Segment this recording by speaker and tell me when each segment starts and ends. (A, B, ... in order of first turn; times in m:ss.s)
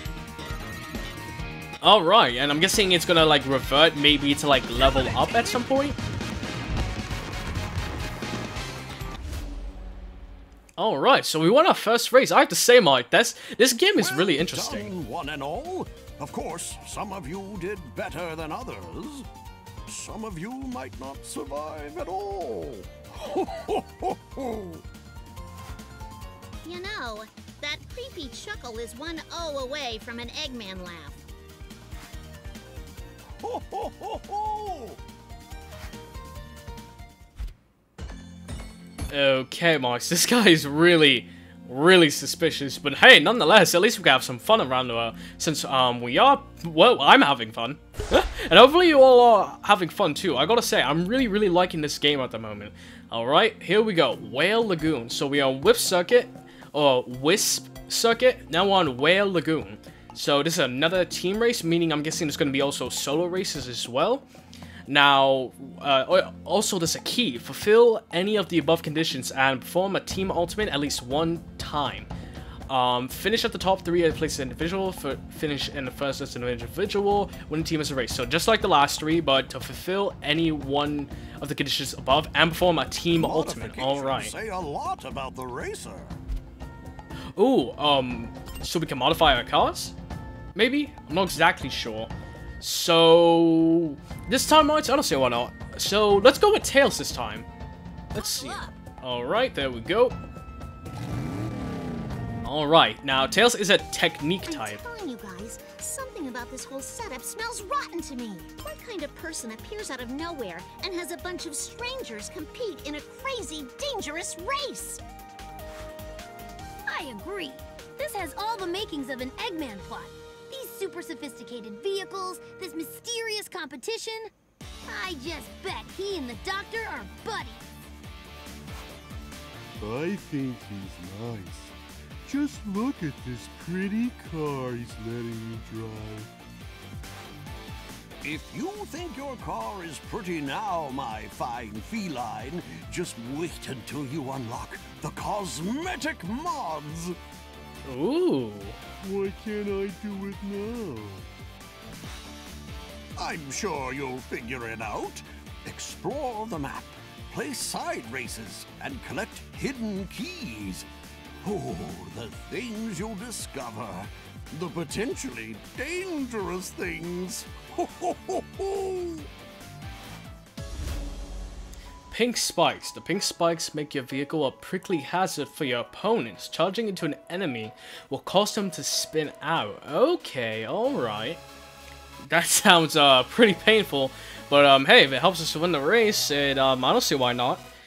0:01.8-0:06.0 A
0:10.8-0:14.9 A
0:14.0-0:19.3 B
0:19.9-0:24.8 B
0:26.6-0:31.2 C
0:33.4-0:35.0 B
0:39.1-1:04.2 A
1:04.9-1:12.1 A
1:12.7-1:24.3 A
1:23.2-1:26.2 B
1:27.4-1:29.9 A
1:30.5-1:37.5 A
1:38.1-1:40.2 A
1:38.2-1:38.8 D
1:42.4-1:44.8 A
1:44.4-1:55.0 C
1:56.9-2:04.3 D
2:04.8-2:07.6 D
2:09.8-2:16.3 E
2:18.2-2:27.2 B
2:27.8-2:28.8 A
2:29.0-2:31.3 E
2:33.2-2:40.9 B
2:41.4-2:49.3 B
2:52.1-3:01.4 A
3:02.3-3:07.6 A